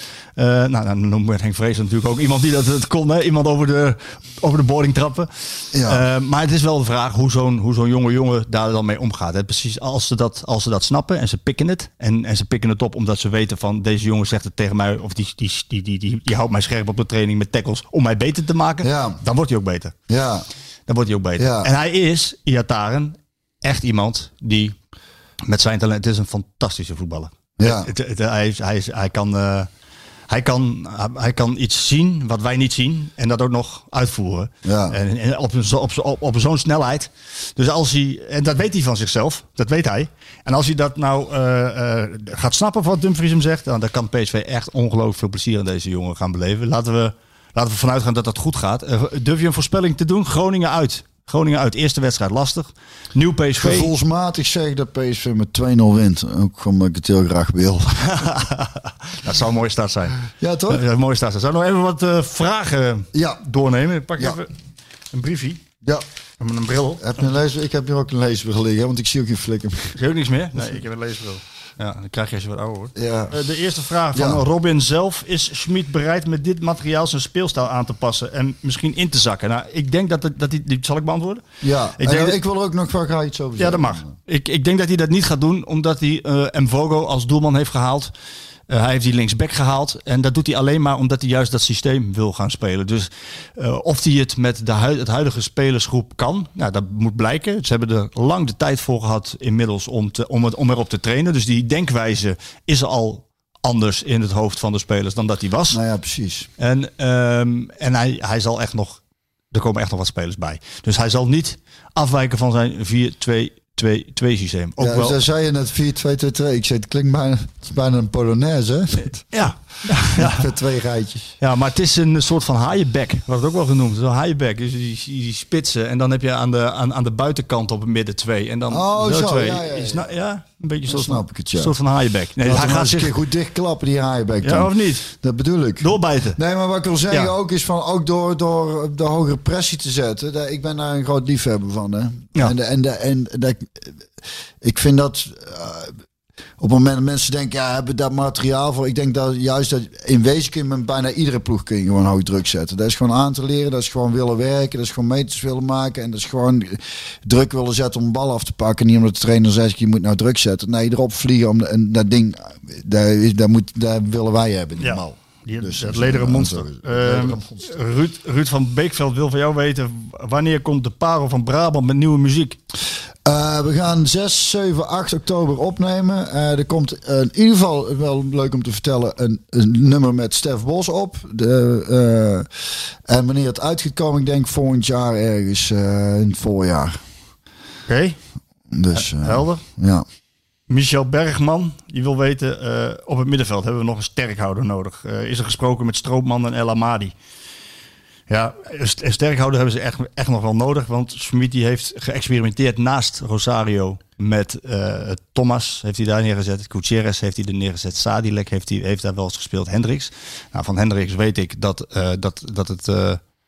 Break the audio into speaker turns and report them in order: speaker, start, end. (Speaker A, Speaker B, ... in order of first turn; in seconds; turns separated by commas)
Speaker A: 0.3-19.9, Speaker B: 5.7-6.0, Speaker B: 18.8-19.2, Speaker B: 20.1-20.4, Speaker A: 20.9-24.8, Speaker B: 21.4-21.7, Speaker A: 25.4-29.7, Speaker B: 27.6-27.9, Speaker A: 30.3-53.9, Speaker B: 34.6-35.0, Speaker B: 53.6-58.3, Speaker A: 58.1-60.2, Speaker B: 60.4-60.8, Speaker A: 60.7-64.5, Speaker B: 63.1-63.4, Speaker A: 65.1-65.6, Speaker A: 66.4-67.2, Speaker B: 67.0-69.9, Speaker A: 69.9-81.4, Speaker B: 72.9-73.4, Speaker B: 74.1-74.4, Speaker B: 81.6-84.1, Speaker A: 82.0-82.4, Speaker A: 83.6-88.1, Speaker A: 88.7-105.8, Speaker B: 105.7-106.5, Speaker A: 106.6-109.0, Speaker A: 109.5-115.2, Speaker B: 114.8-119.4, Speaker A: 119.3-120.5, Speaker B: 120.1-121.3, Speaker A: 121.4-133.1, Speaker B: 128.7-130.1, Speaker B: 130.9-131.8, Speaker B: 132.4-144.0, Speaker A: 134.4-135.1, Speaker A: 135.8-136.4, Speaker B: 144.6-145.9, Speaker B: 146.6-167.8, Speaker A: 164.8-172.6, Speaker B: 173.2-182.5, Speaker B: 183.1-187.0, Speaker A: 187.9-188.2, Speaker B: 188.7-190.0, Speaker A: 188.9-189.6, Speaker A: 190.7-197.1, Speaker A: 198.3-213.2